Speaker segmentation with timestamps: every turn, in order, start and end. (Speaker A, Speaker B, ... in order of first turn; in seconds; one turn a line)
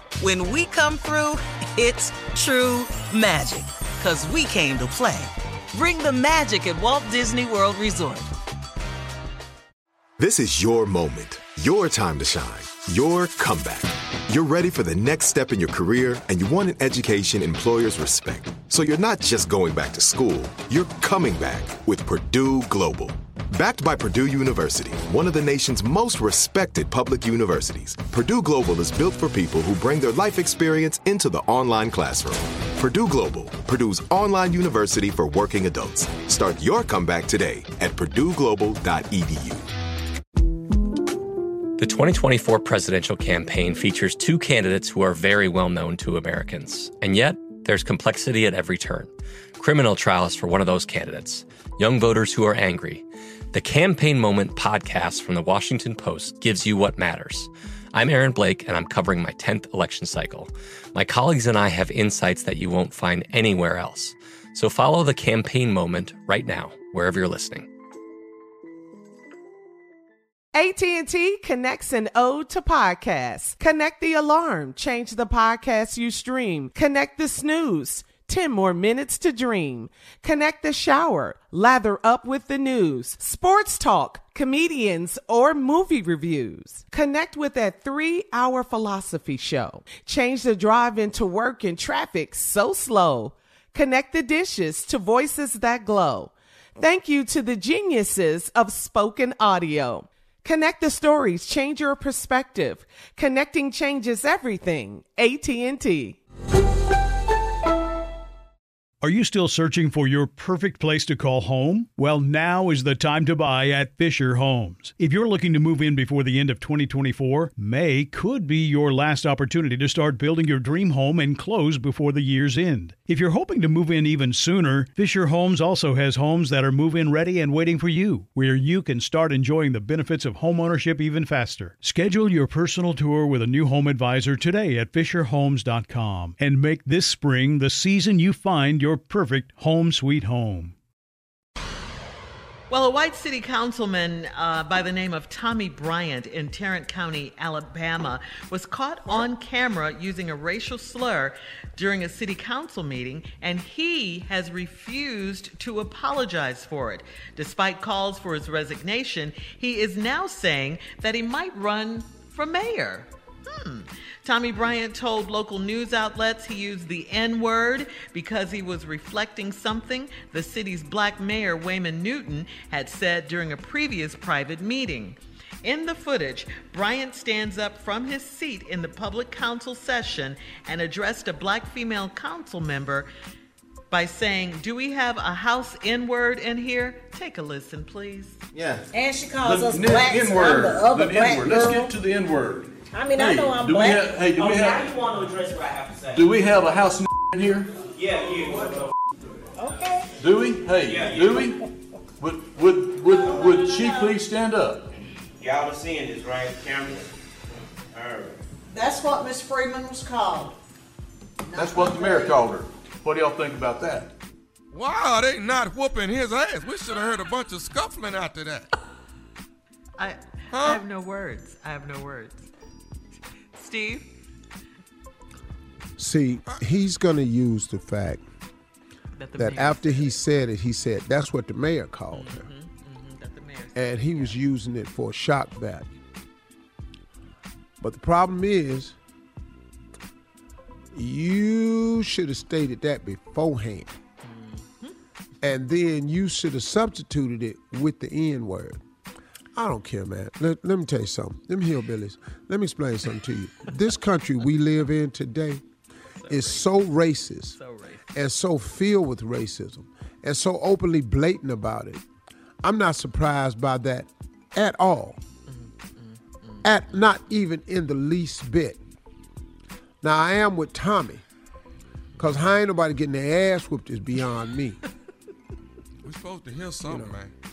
Speaker A: 0.2-8.3
Speaker B: 10.2-39.6
Speaker C: 41.8-67.7
Speaker D: 70.5-106.2
Speaker E: 109.0-140.7
Speaker F: 142.7-183.1
Speaker F: 183.9-188.4
Speaker G: 188.9-191.9
Speaker H: 189.4-195.1
Speaker G: 192.9-193.9
Speaker I: 194.4-196.1
Speaker H: 196.1-197.7
Speaker I: 198.0-198.7
Speaker G: 199.6-200.0
Speaker H: 200.2-201.6
Speaker I: 200.9-201.3
Speaker H: 202.2-204.9
Speaker I: 205.4-207.0
Speaker I: 207.9-208.4
Speaker G: 208.7-210.5
Speaker H: 211.6-214.1
Speaker G: 211.9-212.3
Speaker J: 214.7-218.7
Speaker F: 220.0-222.5
Speaker J: 220.5-220.8
Speaker F: 223.6-224.1
Speaker K: 226.0-228.2
Speaker F: 229.2-230.2
Speaker K: 229.3-232.5
Speaker F: 232.1-234.4
Speaker K: 233.7-235.9
Speaker K: 237.8-238.9
Speaker K: 240.9-243.9
Speaker F: 244.2-244.9
Speaker K: 245.4-248.8
Speaker K: 249.6-255.6
Speaker F: 256.2-256.9
Speaker K: 256.3-257.6
Speaker F: 257.5-258.1
Speaker K: 258.1-262.0
Speaker K: 262.6-265.2
Speaker F: 265.5-266.6
Speaker K: 266.6-268.8
Speaker K: 270.0-271.2
Speaker K: 272.2-274.8
Speaker J: 276.0-277.3
Speaker K: 276.9-277.2